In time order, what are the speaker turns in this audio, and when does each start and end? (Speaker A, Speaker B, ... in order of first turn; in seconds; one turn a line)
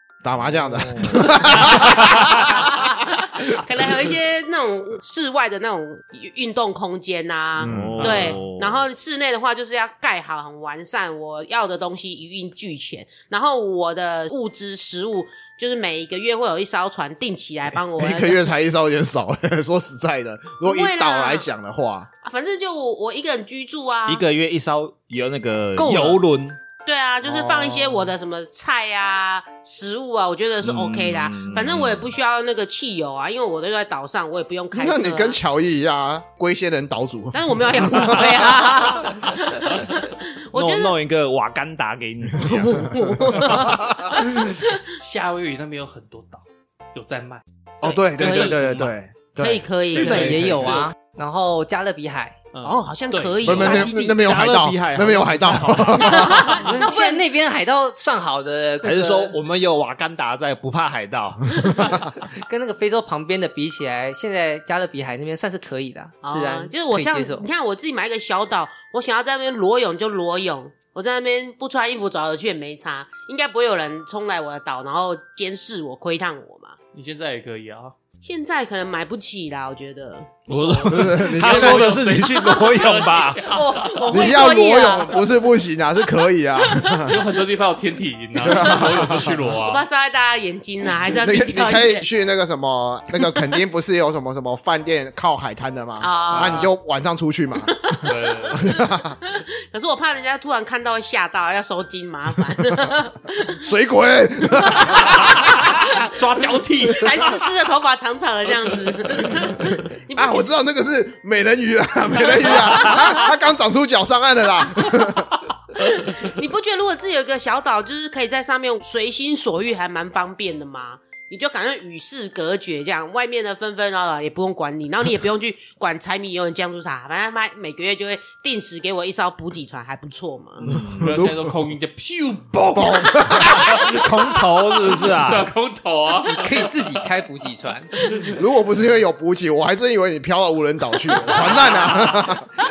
Speaker A: 0.2-2.9
Speaker B: 0.5-2.3
Speaker C: 1.1-18.4
Speaker A: 7.6-8.4
Speaker B: 7.6-8.8
Speaker A: 17.7-22.1
Speaker C: 20.6-21.4
Speaker C: 22.2-24.2
Speaker B: 24.1-26.6
Speaker C: 25.9-26.2
Speaker C: 26.9-35.4
Speaker A: 27.2-28.1
Speaker B: 30.6-32.1
Speaker A: 34.7-38.8
Speaker C: 37.3-41.0
Speaker B: 40.5-43.6
Speaker C: 42.4-44.8
Speaker A: 43.5-44.2
Speaker D: 44.2-47.4
Speaker C: 47.8-48.6
Speaker A: 47.8-50.7
Speaker D: 48.1-48.9
Speaker C: 49.4-50.4
Speaker D: 49.9-50.9
Speaker E: 49.9-52.4
Speaker D: 52.5-53.7
Speaker C: 52.6-54.1
Speaker A: 53.4-56.6
Speaker B: 53.5-56.2
Speaker C: 56.0-57.2
Speaker E: 56.5-59.4
Speaker B: 58.8-62.1
Speaker E: 62.3-67.5
Speaker C: 66.2-76.8
Speaker D: 76.9-77.9
Speaker C: 78.2-80.5
Speaker B: 80.5-83.5
Speaker D: 80.5-84.4
Speaker A: 80.8-82.3
Speaker C: 82.4-85.3
Speaker A: 84.1-87.2
Speaker D: 86.8-89.9
Speaker A: 88.4-89.3
Speaker C: 88.5-92.0
Speaker A: 91.1-99.2
Speaker C: 96.0-96.7
Speaker D: 96.3-96.6
Speaker C: 97.7-103.6
Speaker D: 98.0-98.7
Speaker A: 103.6-105.5
Speaker C: 104.5-106.1
Speaker D: 104.9-107.5
Speaker C: 106.8-110.5
Speaker D: 109.2-109.5
Speaker A: 110.1-115.3
Speaker C: 112.2-113.2
Speaker D: 112.7-113.0
Speaker C: 115.8-130.6
Speaker B: 130.6-131.3
Speaker A: 130.7-131.5
Speaker D: 131.0-137.0
Speaker A: 132.7-133.7
Speaker B: 133.7-135.5
Speaker E: 136.2-137.9
Speaker D: 138.0-138.3
Speaker A: 138.2-142.5
Speaker C: 141.3-142.3
Speaker D: 141.3-142.2